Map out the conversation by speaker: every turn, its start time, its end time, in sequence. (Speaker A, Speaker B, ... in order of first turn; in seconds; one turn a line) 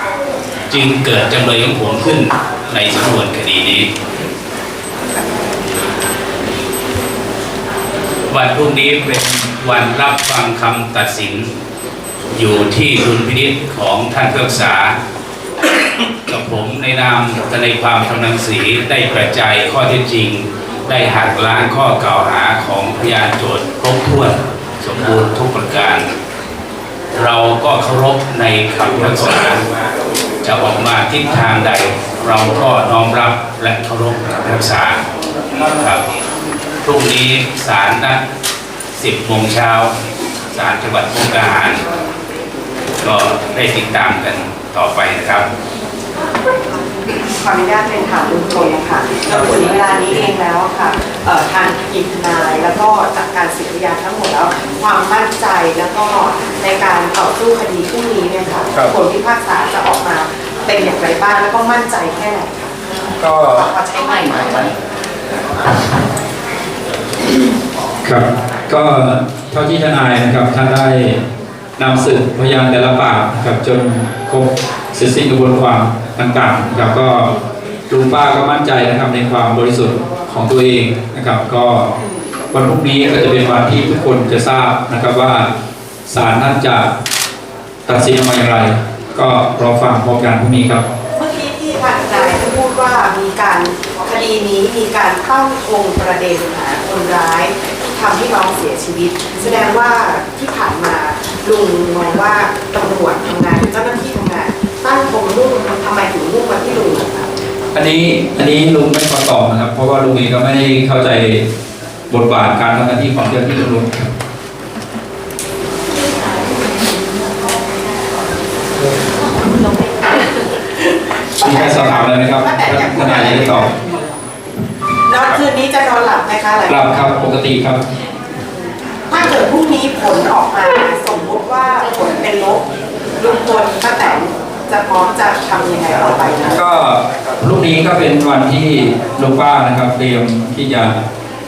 Speaker A: 0.7-3.9
Speaker A: 8.3-11.5
Speaker A: 12.3-14.9
Speaker A: 16.3-26.1
Speaker A: 27.1-29.7
Speaker A: 30.4-35.0
Speaker A: 35.6-36.1
Speaker A: 36.8-38.2
Speaker A: 39.0-39.9
Speaker A: 40.5-41.8
Speaker A: 43.0-45.5
Speaker B: 47.4-62.8
Speaker C: 63.2-63.7
Speaker B: 63.5-64.7
Speaker C: 68.0-71.2
Speaker C: 71.8-77.3
Speaker C: 77.9-81.9
Speaker C: 82.5-85.5
Speaker C: 86.1-86.9
Speaker C: 87.8-90.8
Speaker B: 91.1-107.3
Speaker C: 107.7-111.4
Speaker C: 112.1-114.1
Speaker B: 121.4-123.9
Speaker C: 121.4-123.7
Speaker B: 125.1-127.1
Speaker C: 126.7-127.8
Speaker B: 129.1-132.6
Speaker B: 133.2-136.6
Speaker C: 136.5-140.9